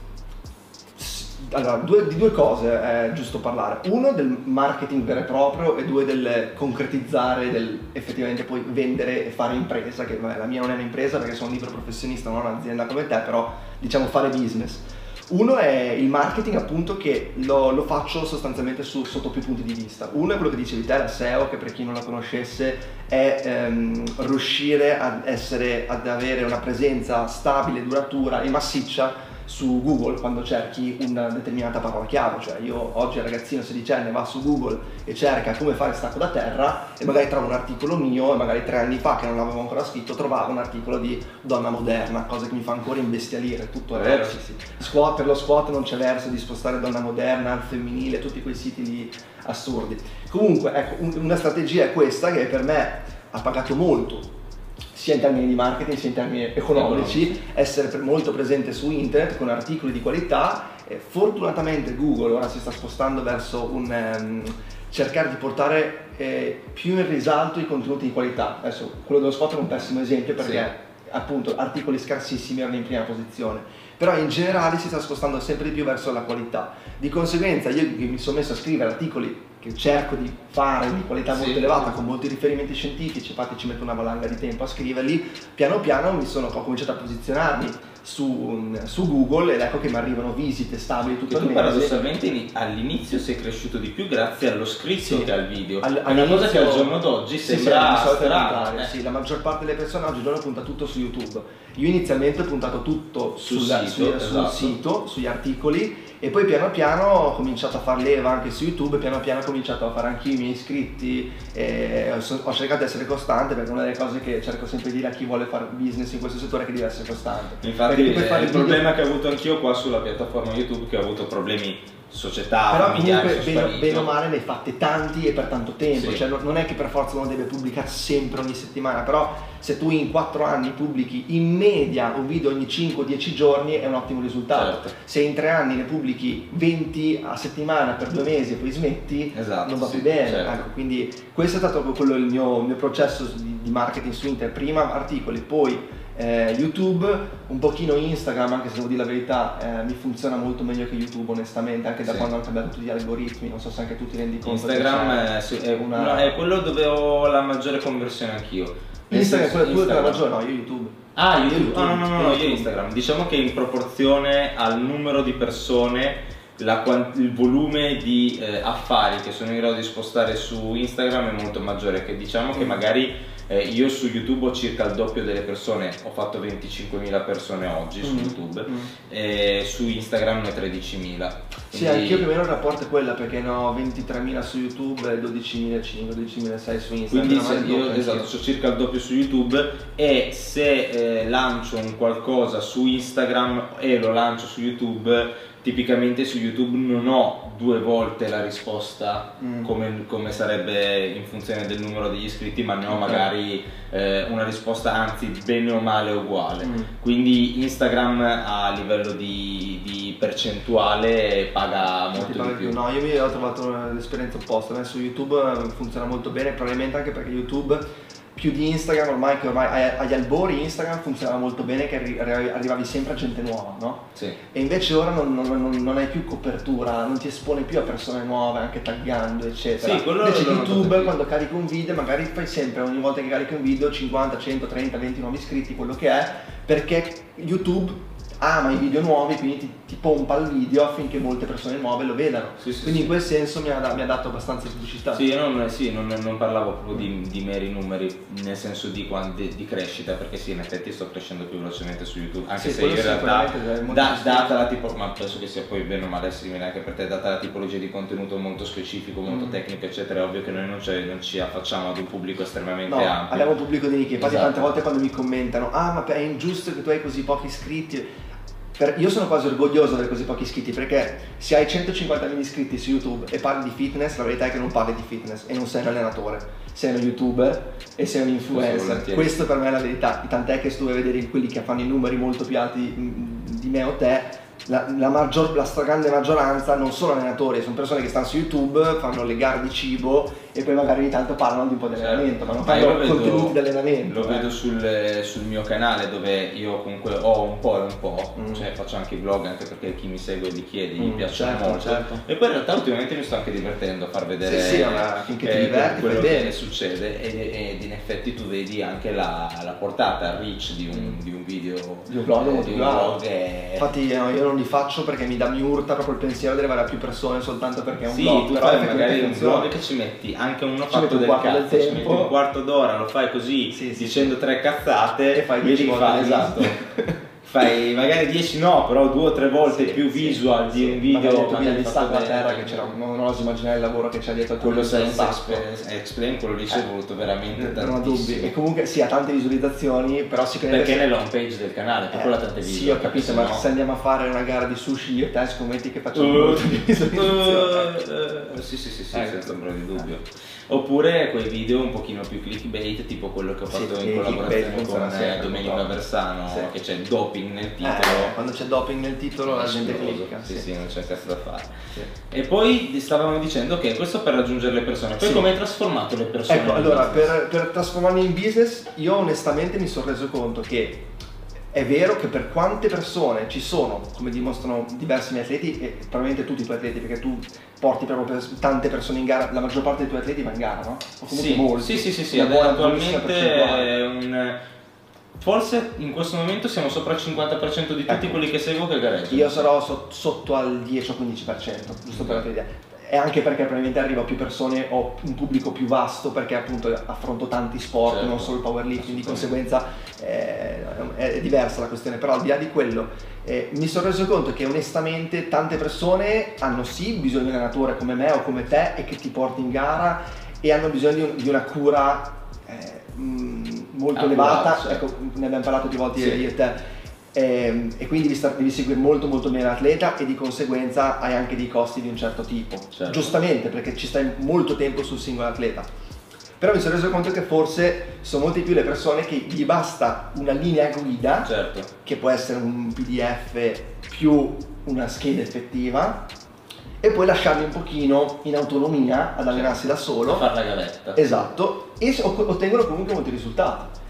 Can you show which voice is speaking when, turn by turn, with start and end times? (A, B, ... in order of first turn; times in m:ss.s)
0:01.0-0:54.3 A
0:43.9-0:44.4 B
0:54.9-1:32.0 A
0:56.7-0:57.4 B
1:21.3-1:21.8 B
1:31.3-1:38.9 B
1:35.0-1:58.9 A
1:43.4-1:44.8 B
1:57.6-2:04.1 B
2:02.7-2:36.4 A
2:05.9-2:06.2 B
2:14.5-2:14.9 B
2:19.3-2:20.6 B
2:34.4-2:40.2 B
2:39.1-2:42.7 A
2:41.2-3:02.2 B
2:52.5-2:52.8 A
2:58.0-2:58.9 A
3:01.7-3:08.3 A
3:07.1-3:32.8 B
3:19.4-3:19.7 A
3:22.9-3:23.2 A
3:26.6-3:26.9 A
3:32.1-4:05.2 A
3:49.8-3:51.1 B
4:02.6-4:03.1 B
4:05.1-4:23.5 B
4:12.6-4:14.5 A
4:19.3-4:19.6 A
4:22.8-4:28.1 A
4:24.2-4:24.7 B
4:28.8-4:54.5 A
4:38.5-4:39.3 B
4:51.9-5:13.9 B
4:58.4-4:58.6 A
5:01.0-5:02.2 A
5:04.4-5:06.5 A
5:10.9-5:11.2 A
5:12.1-5:13.2 A
5:13.8-5:19.7 A
5:18.0-5:26.8 B
5:20.9-5:22.3 A
5:23.7-5:24.3 A
5:25.3-5:27.2 A
5:27.4-5:32.9 B
5:29.6-5:35.6 A
5:34.6-5:38.5 B
5:37.5-5:41.1 A
5:40.7-5:43.6 B
5:42.1-5:47.9 A
5:46.1-5:58.3 B
5:49.1-5:50.0 A
5:53.7-5:56.7 A
5:57.8-6:00.7 A
5:59.5-6:01.7 B
6:02.3-6:07.3 B
6:05.2-6:05.5 A
6:06.5-6:11.0 A
6:11.7-6:23.9 A
6:21.3-6:24.6 B
6:25.4-6:29.6 B
6:28.1-6:28.4 A
6:29.3-6:56.8 A
6:32.1-6:32.4 B
6:38.0-6:39.5 B
6:54.1-6:55.0 B
6:57.3-7:05.9 A
7:02.9-7:03.3 B
7:06.6-7:11.5 A
7:11.4-7:11.9 B
7:12.0-7:16.3 A
7:17.0-7:20.5 A
7:19.5-7:21.2 B
7:21.1-7:23.9 A